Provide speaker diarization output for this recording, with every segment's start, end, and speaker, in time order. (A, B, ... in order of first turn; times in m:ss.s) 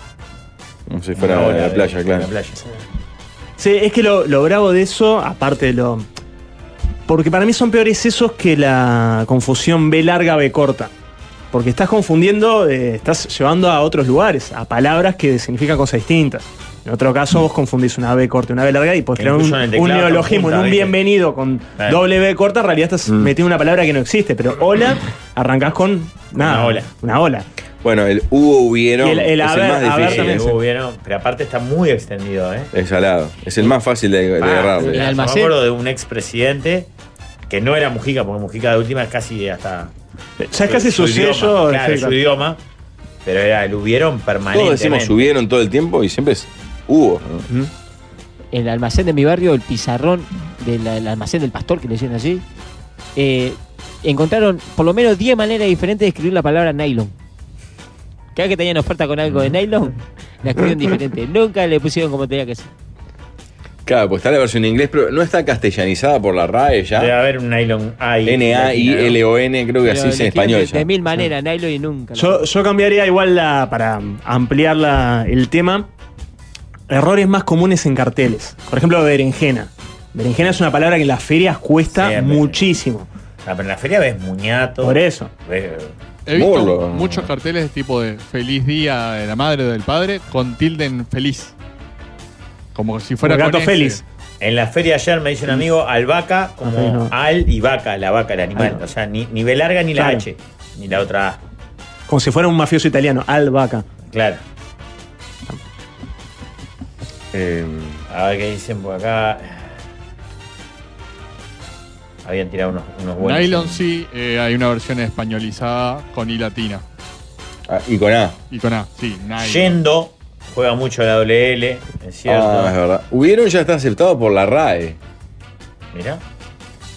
0:00.9-0:02.3 A
0:01.2-0:02.6 B
0:03.6-0:06.1 C
0:07.1-0:10.9 C
0:11.5-0:27.4 C
0:19.2-0:21.0 B
0:26.4-0:26.9 B
0:27.8-0:30.4 A
0:29.0-0:30.6 C
0:30.0-0:32.7 B
0:32.7-0:35.0 A
0:34.4-0:36.9 B
0:34.9-0:35.6 D
0:37.5-0:39.9 B
0:40.4-0:42.2 C
0:40.6-0:42.6 B
0:43.2-0:45.2 B
0:44.5-0:47.5 A
0:48.5-0:52.4 D
0:53.2-0:57.1 D
0:58.4-1:02.7 D
1:03.9-1:07.1 A
1:07.0-1:09.2 B
1:08.2-1:10.9 A
1:09.8-1:12.5 D
1:12.2-1:15.9 C
1:16.9-1:23.1 C
1:21.9-1:22.6 B
1:23.4-1:25.9 B
1:24.8-1:25.3 C
1:26.3-1:31.5 E
1:26.3-1:27.3 A
1:32.8-1:34.0 E
1:33.2-1:34.0 C
1:34.4-1:41.4 B
1:36.6-1:37.1 C
1:40.0-1:40.2 C
1:42.1-1:43.8 C
1:44.1-1:44.4 B
1:47.3-1:48.0 A
1:48.1-1:49.7 B
1:52.2-1:53.8 B
1:53.2-1:56.8 E
1:57.7-1:58.4 A
1:58.5-1:59.8 E
1:59.4-2:02.8 B
2:02.3-2:05.0 A
2:05.9-2:06.2 B